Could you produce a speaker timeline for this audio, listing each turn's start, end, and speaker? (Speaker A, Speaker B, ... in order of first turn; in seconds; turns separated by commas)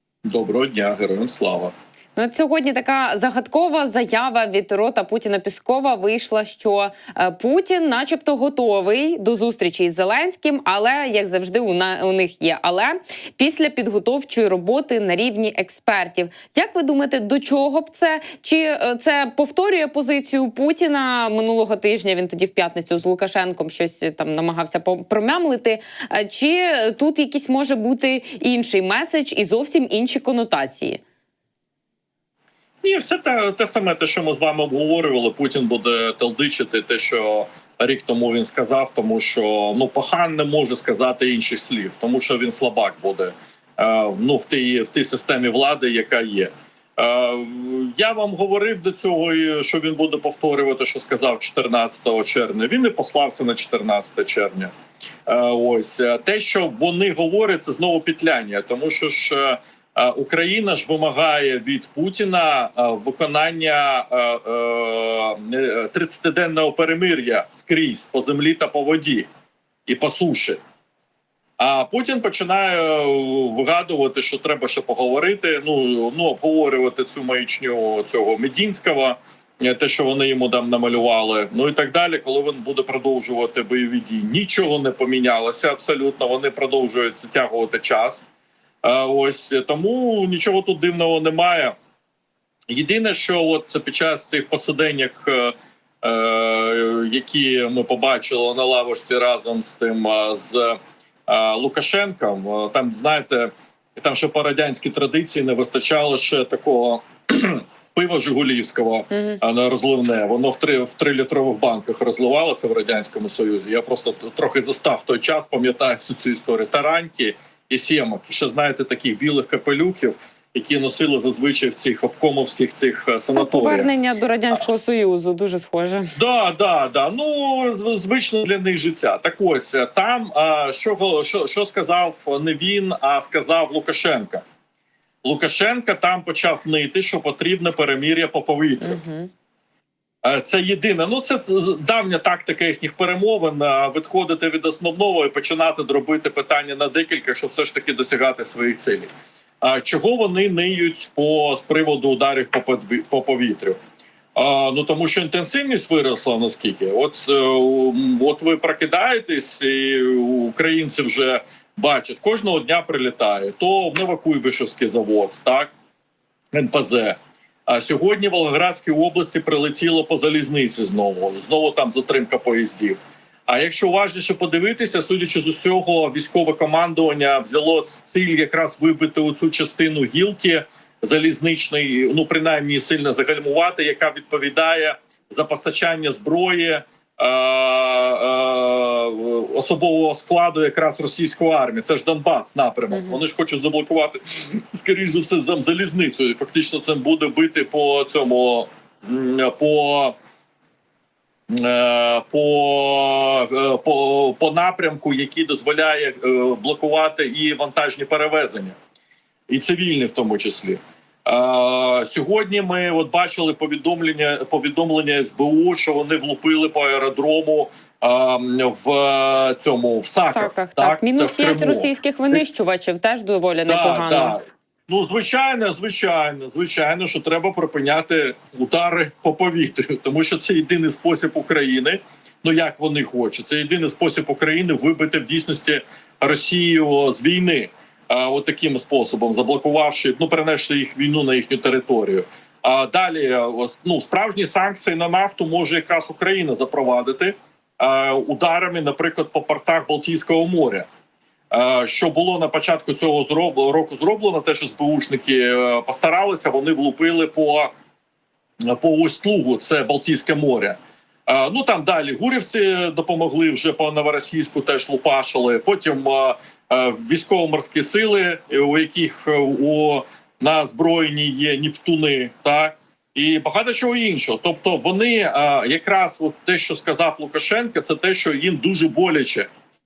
Speaker A: 0.2-1.7, Speaker B: 2.1-31.0, Speaker A: 32.8-54.7, Speaker A: 55.3-69.3, Speaker A: 69.9-70.6, Speaker A: 71.6-88.2, Speaker A: 88.8-91.7, Speaker A: 92.7-123.9, Speaker B: 123.3-126.1, Speaker A: 126.2-134.4, Speaker A: 135.2-139.0, Speaker B: 138.8-139.3, Speaker A: 140.2-149.1, Speaker A: 149.6-153.8, Speaker A: 154.3-165.7, Speaker A: 166.5-200.1, Speaker B: 192.9-193.2, Speaker A: 201.5-208.8, Speaker A: 209.5-221.9, Speaker B: 220.3-224.3, Speaker A: 223.7-250.8, Speaker A: 251.5-257.7, Speaker A: 258.7-279.5